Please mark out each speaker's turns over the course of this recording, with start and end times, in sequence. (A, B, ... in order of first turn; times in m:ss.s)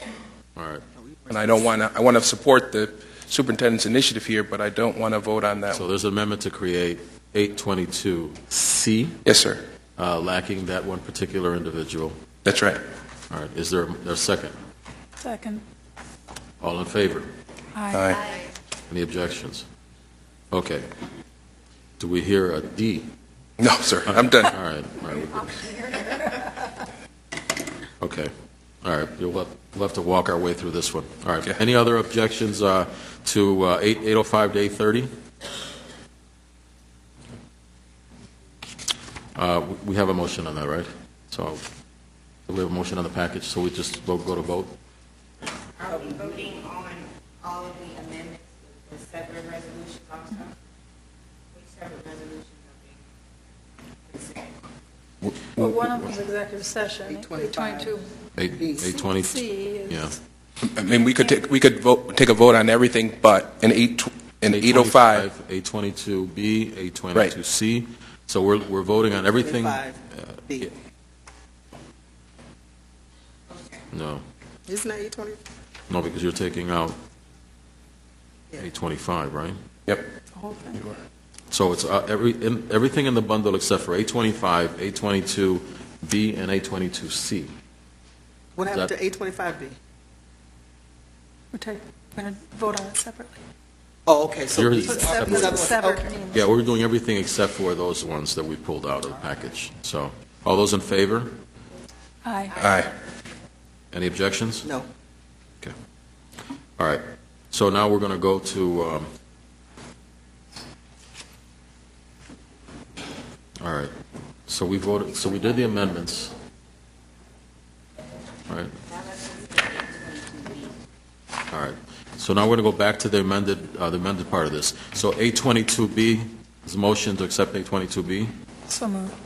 0:00.6-0:00.8 A
0:01.0-0:01.5 B
0:01.3-0:05.8 C
0:05.7-0:09.2 A
0:09.2-0:09.6 C
0:10.0-0:12.2 A
0:12.4-0:12.8 C
0:13.3-0:14.5 A
0:15.2-0:15.6 D
0:16.6-0:17.3 A
0:17.7-0:18.1 D
0:17.9-0:18.2 C
0:18.9-0:19.6 A
0:20.5-0:20.9 A
0:22.0-0:23.1 A
0:23.6-0:24.5 C
0:24.1-0:25.9 A
0:28.0-0:28.3 A
0:28.8-0:35.1 A
0:39.3-0:41.6 A
0:42.5-0:44.7 A
0:45.8-0:50.5 E
0:51.6-0:52.6 E
0:54.1-0:54.4 E
0:55.2-0:55.9 C
0:55.6-0:58.1 D
0:57.0-0:57.9 B
0:58.4-1:00.2 A
0:58.6-0:58.9 B
0:58.8-1:00.1 D
1:00.6-1:05.3 C
1:04.5-1:10.7 A
1:09.3-1:10.7 B
1:13.9-1:14.2 A
1:14.7-1:15.4 B
1:15.9-1:17.0 A
1:18.6-1:19.6 A
1:20.3-1:20.8 D
1:21.5-1:27.5 A
1:28.6-1:29.7 B
1:28.6-1:28.9 A
1:31.5-1:33.4 D
1:34.0-1:36.1 B
1:34.5-1:35.6 A
1:34.8-1:36.4 D
1:36.3-1:41.4 A
1:42.2-1:42.6 D
1:42.6-1:42.9 C
1:43.9-1:44.7 A
1:46.8-1:49.1 A
1:53.6-1:53.9 A
1:54.5-1:56.3 A
1:58.5-1:58.7 A
1:59.2-2:00.7 E
2:01.5-2:08.3 A
2:08.7-2:09.1 D